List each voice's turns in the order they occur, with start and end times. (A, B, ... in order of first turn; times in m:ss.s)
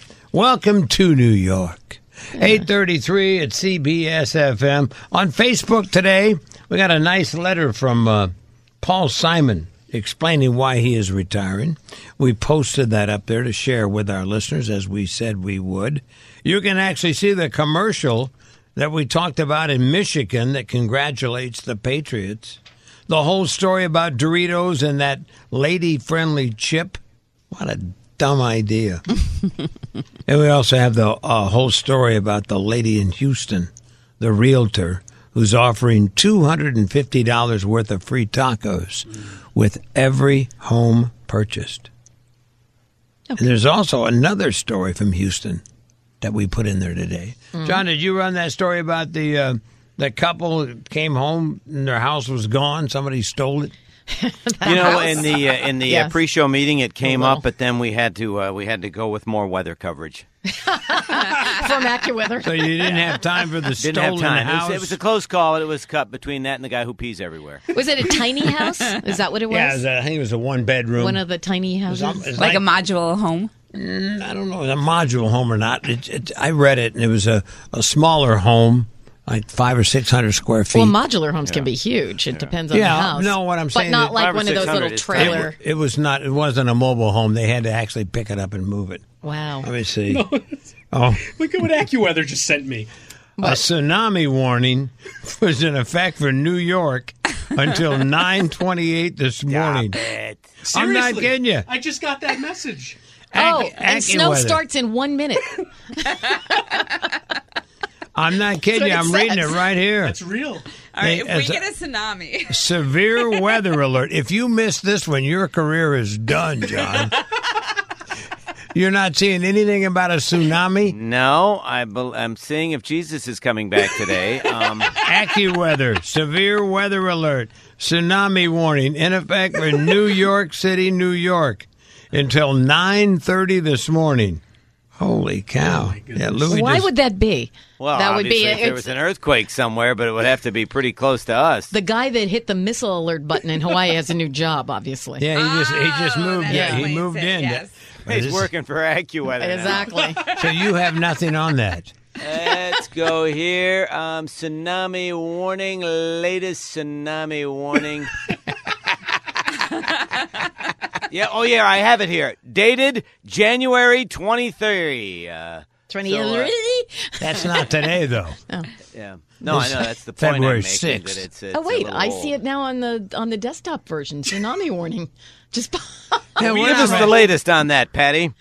0:00.3-0:27.0 A
0:27.5-0:29.0 A
0:30.3-0:33.7 A
0:34.2-0:41.9 A
0:43.4-0:45.6 A
0:46.2-0:53.7 A
0:47.5-0:47.8 B
0:54.1-0:56.2 B
0:54.6-1:00.2 C
1:00.5-1:03.2 B
1:02.4-1:05.0 A
1:03.8-1:07.6 C
1:07.7-1:09.8 B
1:09.5-1:11.3 A
1:11.0-1:12.4 B
1:11.9-1:12.6 A
1:12.4-1:13.5 D
1:13.7-1:21.0 A
1:20.7-1:25.6 B
1:22.7-1:29.0 A
1:24.1-1:25.5 C
1:29.2-1:29.7 B
1:29.6-1:30.3 A
1:30.1-1:30.4 E
1:30.9-1:31.3 A
1:31.2-1:32.9 E
1:33.4-1:33.6 B
1:33.4-1:40.0 A
1:39.5-1:40.5 C
1:40.6-1:42.9 E
1:40.7-1:41.7 A
1:43.3-1:44.6 A
1:43.4-1:47.0 B
1:48.2-1:50.2 A
1:48.7-1:49.6 B
1:50.1-1:50.6 E
1:50.9-1:52.7 D
1:51.0-1:51.6 A
1:52.5-1:57.2 A
1:58.7-2:01.0 A
2:00.9-2:05.0 C
2:04.9-2:14.4 A
2:15.0-2:16.9 A
2:15.7-2:16.3 E
2:16.5-2:18.9 B
2:17.8-2:21.7 C
2:21.7-2:25.3 B
2:25.2-2:28.5 A
2:25.4-2:27.8 D
2:26.5-2:26.9 B
2:28.1-2:30.1 C
2:29.4-2:30.4 B
2:30.2-2:31.9 A
2:32.2-2:38.3 C
2:41.1-2:46.5 C
2:45.9-2:47.8 B
2:47.2-2:48.4 A
2:48.9-2:52.4 C
2:49.5-2:51.2 A
2:51.5-2:57.2 B
2:56.4-2:57.2 A
2:56.4-2:58.3 C